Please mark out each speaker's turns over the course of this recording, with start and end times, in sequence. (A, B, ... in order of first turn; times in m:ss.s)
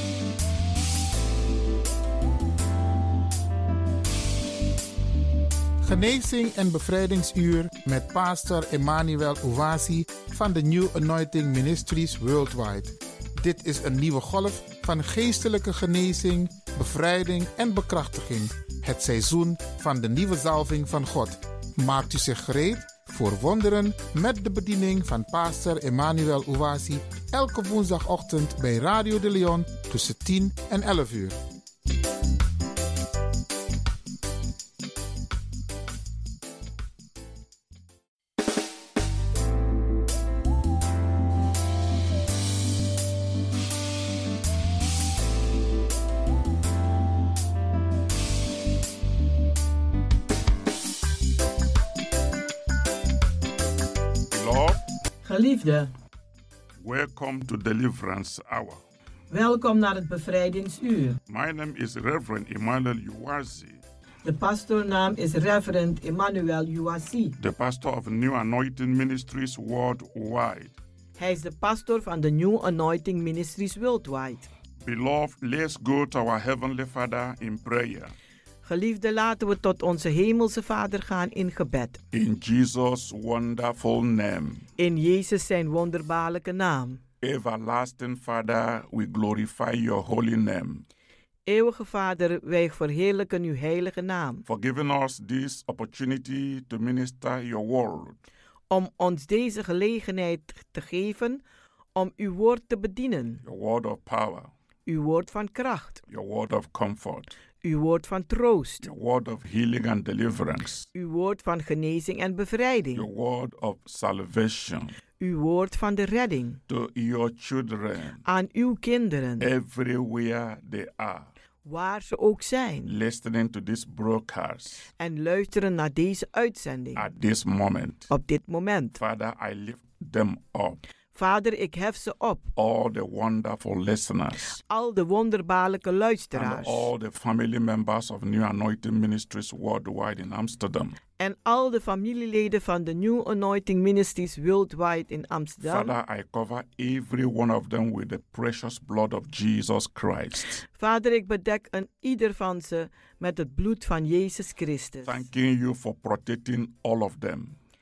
0:05.8-0:31.4 A
0:54.3-0:54.8 B
0:55.2-0:55.9 C
0:56.8-0:58.8 B
0:59.3-1:01.2 C
1:01.3-1:03.8 B
1:04.2-1:07.3 C
1:07.4-1:10.8 B
1:11.2-1:14.5 C
1:14.8-1:18.1 B
1:18.6-1:22.0 C
1:22.1-1:24.7 B
1:24.8-1:27.0 C
1:27.2-1:30.8 B
1:31.4-1:34.4 C
1:34.4-1:38.2 B
1:38.7-1:41.4 C
1:41.9-1:43.4 C
1:43.4-1:44.5 B
1:44.8-1:46.0 C
1:46.1-1:47.3 B
1:47.6-1:48.8 C
1:48.8-1:50.9 B
1:50.9-1:53.0 C
1:52.9-1:54.9 B
1:55.2-1:56.6 C
1:56.7-1:58.2 B
1:58.2-1:59.5 C
1:59.4-2:01.3 B
2:01.6-2:02.9 C
2:02.8-2:04.9 B
2:05.0-2:07.0 C
2:07.0-2:08.1 B
2:08.1-2:09.0 C
2:09.0-2:10.8 B
2:11.1-2:12.5 C
2:12.6-2:14.6 B
2:14.6-2:16.9 C
2:16.3-2:21.0 B
2:21.2-2:25.9 C
2:25.6-2:30.6 B
2:30.8-2:35.2 C
2:35.0-2:37.6 B